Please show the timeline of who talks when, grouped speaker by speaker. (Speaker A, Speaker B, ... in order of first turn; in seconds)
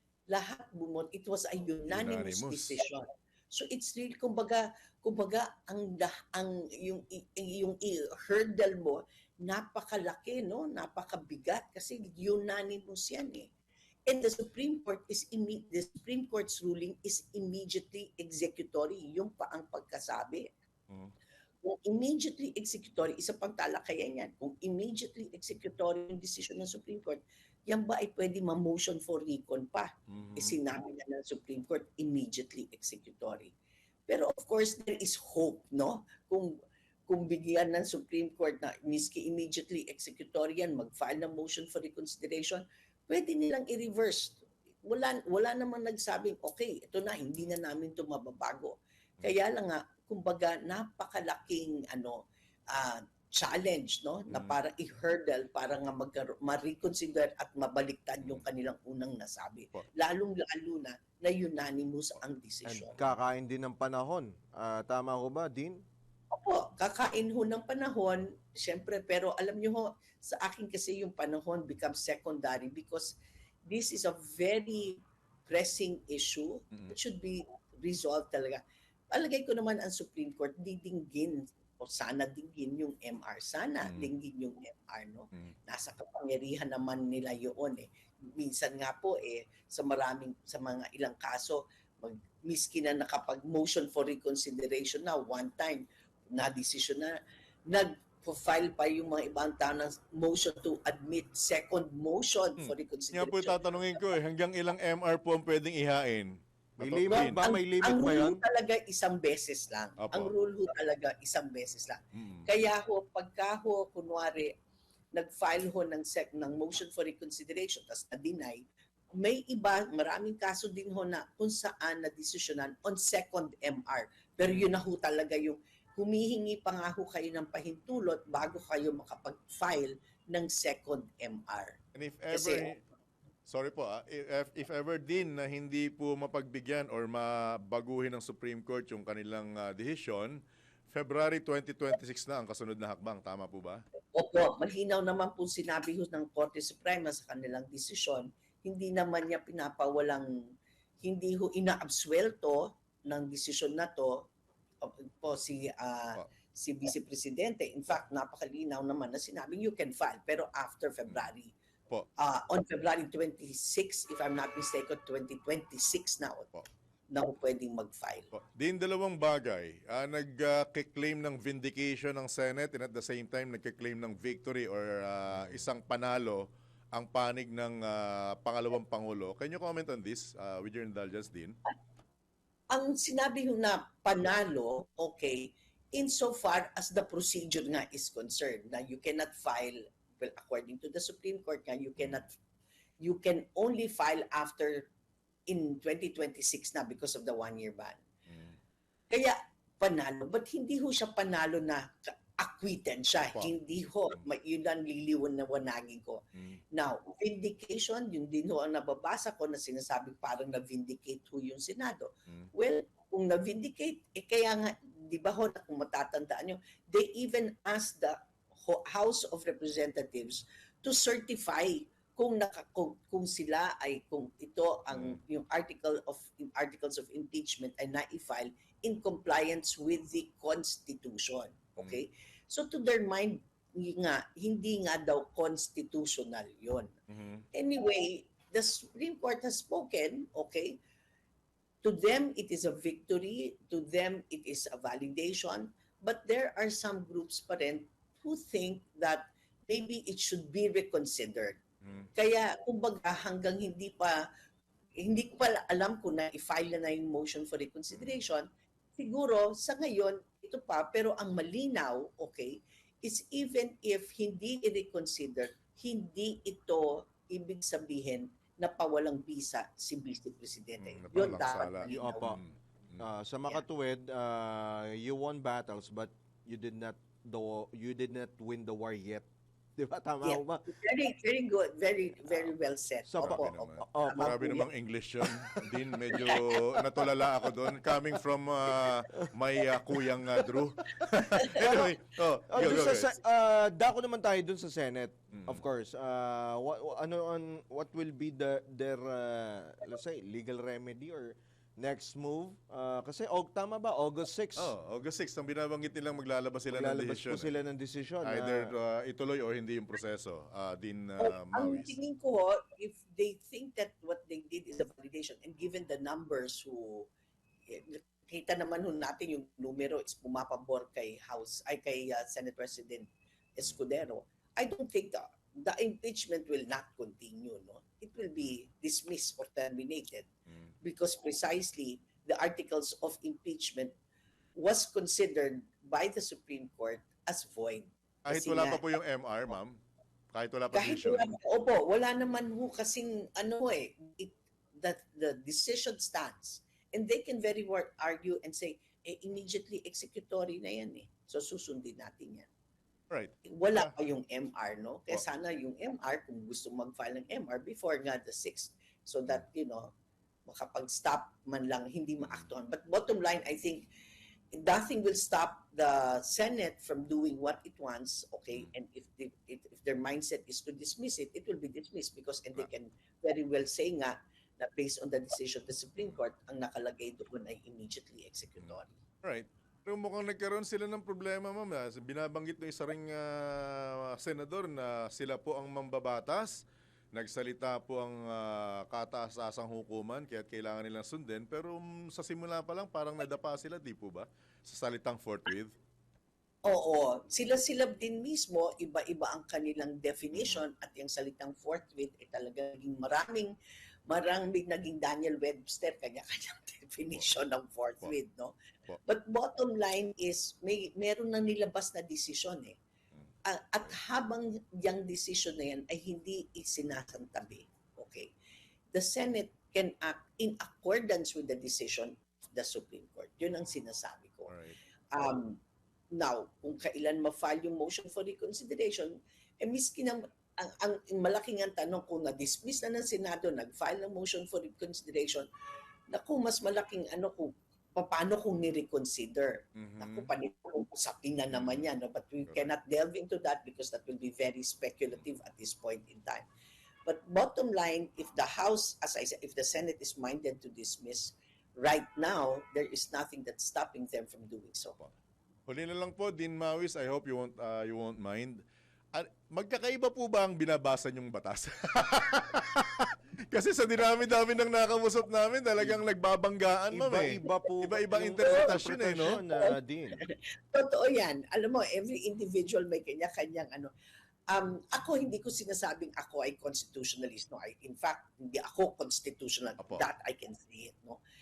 Speaker A: 0.3-13.5, 14.1-20.5, 21.6-33.5, 34.1-36.5, 37.1-52.2, 52.7-63.0, 66.3-73.2, 73.7-97.1, 97.7-103.8, 107.1-114.5, 115.1-118.6, 119.2-131.8, 132.3-132.7, 144.1-150.3, 151.0-154.3, 154.8-161.5, 162.2-166.5, 167.1-168.3, 182.7-192.3, 193.0-194.9, 195.5-198.0, 199.1-206.2, 206.7-236.9, 237.5-240.8, 241.8-251.6, 252.2-254.2, 255.0-272.3, 280.2-284.7, 286.1-286.4, 291.4-291.8, 311.2-317.1, 317.7-330.3, 330.8-333.9, 334.6-338.8, 340.7-352.5, 353.5-359.9, 360.5-363.9, 364.6-378.9, 396.7-403.5, 404.1-412.8, 413.4-418.3, 418.9-424.5, 425.1-425.6, 426.1-435.5, 436.1-446.5, 447.1-455.0, 468.4-468.8, 469.4-473.9, 474.5-481.2
Speaker B: 1.9-2.8, 30.1-30.6, 54.3-54.6, 83.8-84.1, 102.6-107.4, 110.0-110.3, 112.2-112.5, 124.5-124.7, 131.9-132.8, 133.5-140.4, 140.9-143.8, 168.3-176.4, 176.9-181.6, 192.0-192.2, 198.3-198.6, 203.3-203.5, 224.9-225.2, 237.1-237.4, 257.9-258.2, 270.8-273.0, 283.2-293.2, 295.3-295.6, 304.6-307.5, 308.2-311.9, 338.2-339.8, 340.3-341.3, 353.1-353.9, 378.6-395.7, 400.3-400.6, 424.5-424.8, 439.8-440.3, 441.5-441.9, 455.7-458.6, 459.1-469.4, 479.8-480.1
Speaker C: 62.7-65.8, 106.8-108.4, 271.9-272.4, 273.0-279.3, 279.8-280.7, 283.1-284.7, 291.6-291.9, 292.5-304.7, 306.7-308.7, 466.9-470.2